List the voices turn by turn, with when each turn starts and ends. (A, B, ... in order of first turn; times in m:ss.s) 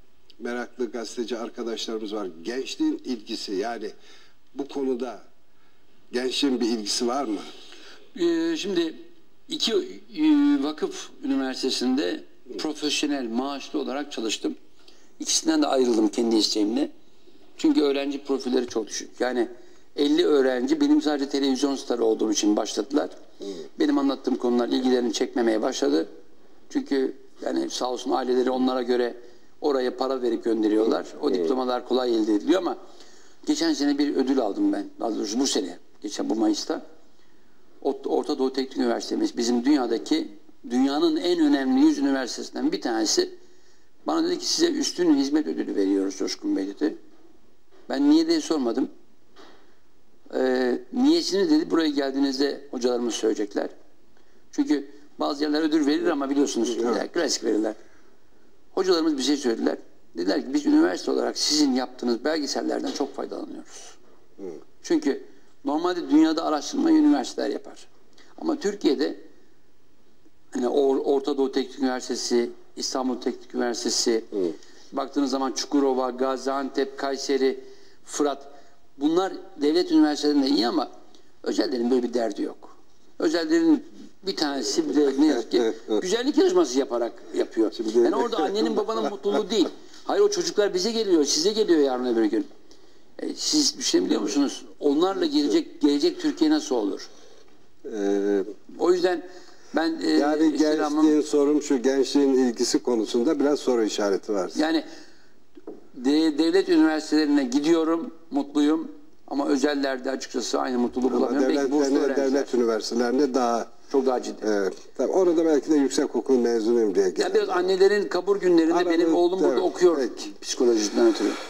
0:00.4-0:03.9 A
0:04.5-0:05.2 A
0:06.1-0:07.5 A
0:08.1-0:08.9 B
0:09.5-0:14.6 B
0:15.2-0:16.9 B
0:17.6-0:23.1 B
0:23.8-0:26.1 B
0:26.7-0:32.8 B
0:33.4-0:36.8 B
0:37.8-0:43.3 B
0:44.0-0:47.0 B
0:47.9-0:48.9 B
0:50.3-0:53.7 B
0:54.5-0:57.8 B
0:56.7-0:57.0 A
0:58.7-1:04.0 B
1:04.8-1:09.2 B
1:10.5-1:20.9 B
1:21.4-1:32.5 B
1:25.7-1:26.0 A
1:27.7-1:29.1 A
1:33.2-1:37.1 B
1:37.8-1:38.5 A
1:38.7-1:41.2 B
1:40.1-1:44.6 A
1:44.5-1:44.8 B
1:45.9-1:52.5 B
1:51.1-1:53.7 A
1:53.9-1:54.4 B
1:54.4-1:57.7 A
1:57.2-2:01.4 B
1:58.7-2:00.3 A